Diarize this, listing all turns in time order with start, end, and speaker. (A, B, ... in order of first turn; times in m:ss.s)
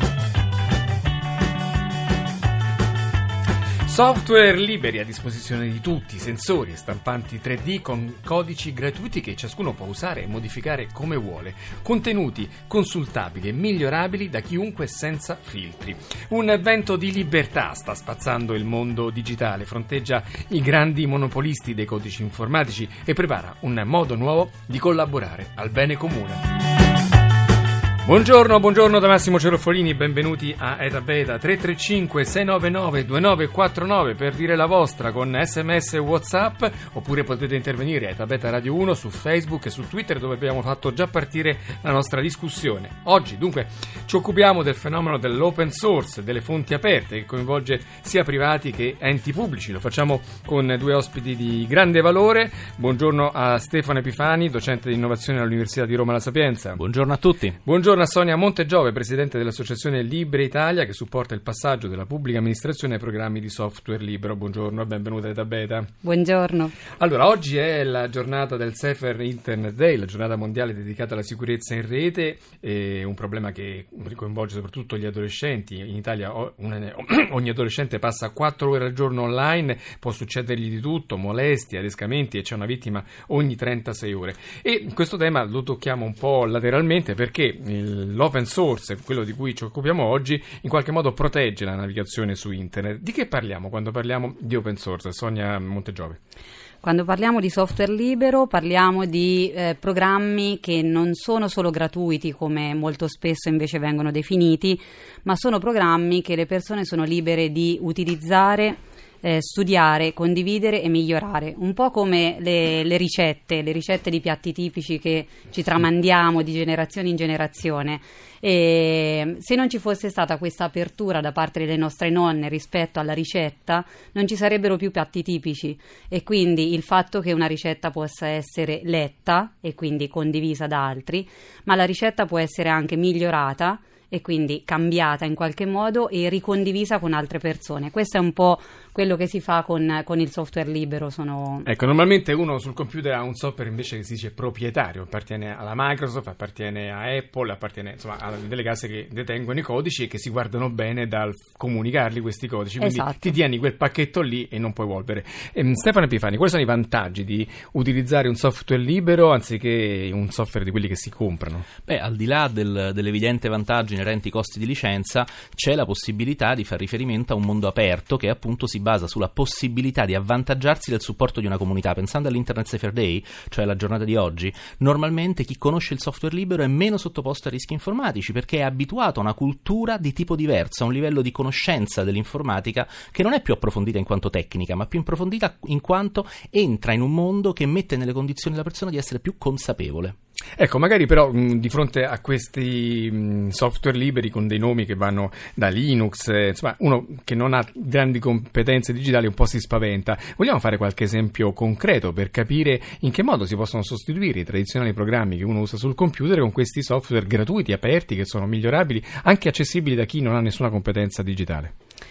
0:03.9-0:26.4 A
0:28.0-0:56.8 A
0:56.8-0:57.6 B
0:57.6-1:05.9 A
1:06.0-1:06.8 C
1:07.0-1:36.2 A
1:36.8-2:21.7 C
2:21.6-2:41.7 A
2:32.8-2:33.3 C
2:41.9-3:10.2 B
3:10.6-3:31.7 A